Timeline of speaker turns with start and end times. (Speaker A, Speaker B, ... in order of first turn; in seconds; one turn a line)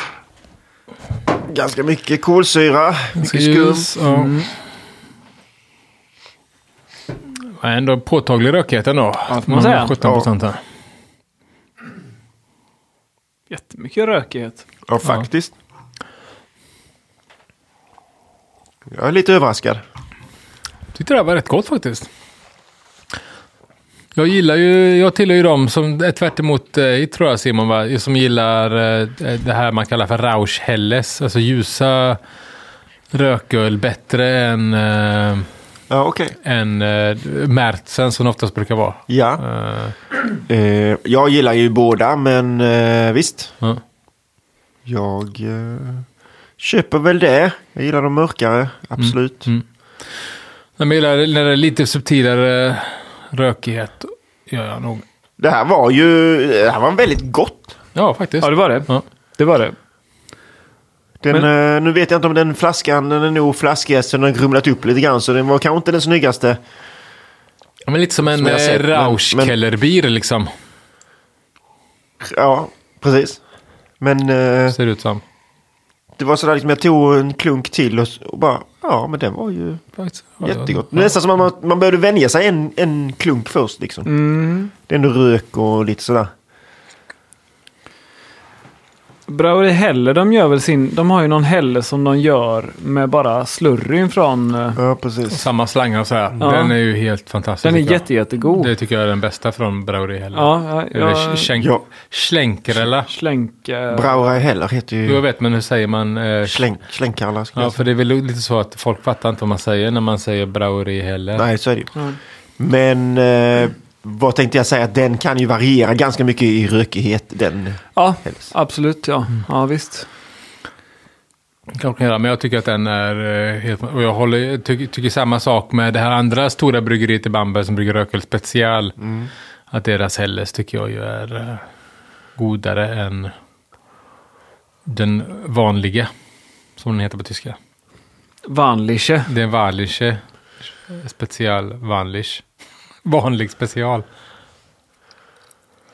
Speaker A: 1.4-3.9
Speaker B: 3.2-4.4
Speaker C: 4.0-4.5
Speaker B: 7.6-10.6
Speaker C: 9.3-9.9
Speaker A: 10.0-10.3
Speaker C: 13.5-14.7
Speaker A: 14.9-15.5
Speaker A: 18.9-19.8
Speaker B: 20.9-22.1
Speaker B: 24.1-32.2
Speaker B: 33.1-35.5
Speaker A: 35.9-36.4
Speaker B: 36.4-39.9
Speaker A: 39.1-39.4
Speaker A: 40.5-43.5
Speaker A: 44.9-46.0
Speaker A: 46.6-49.5
Speaker B: 49.0-49.6
Speaker B: 50.8-55.0
Speaker A: 55.4-57.7
Speaker B: 57.9-59.0
Speaker C: 58.4-59.8
Speaker A: 61.2-66.6
Speaker B: 67.9-70.5
Speaker A: 68.2-69.5
Speaker A: 72.2-73.4
Speaker A: 74.0-74.8
Speaker B: 74.7-75.2
Speaker A: 76.2-79.8
Speaker B: 80.0-81.1
Speaker A: 80.4-84.1
Speaker C: 84.0-84.7
Speaker A: 84.9-86.3
Speaker C: 89.3-94.8
Speaker A: 94.7-95.5
Speaker B: 95.3-103.1
Speaker C: 96.4-96.8
Speaker C: 97.6-98.7
Speaker C: 100.3-101.5
Speaker A: 101.6-101.9
Speaker C: 103.0-104.4
Speaker A: 103.9-105.2
Speaker B: 105.0-106.7
Speaker A: 106.4-107.8
Speaker B: 107.5-111.5
Speaker A: 111.3-111.9
Speaker A: 112.6-118.4
Speaker C: 117.9-120.1
Speaker B: 121.8-129.0
Speaker A: 129.0-129.3
Speaker B: 129.7-131.6
Speaker B: 132.4-133.3
Speaker B: 134.9-136.1
Speaker B: 136.8-137.6
Speaker C: 138.5-139.3
Speaker B: 139.3-140.2
Speaker B: 140.9-142.4
Speaker B: 143.0-144.0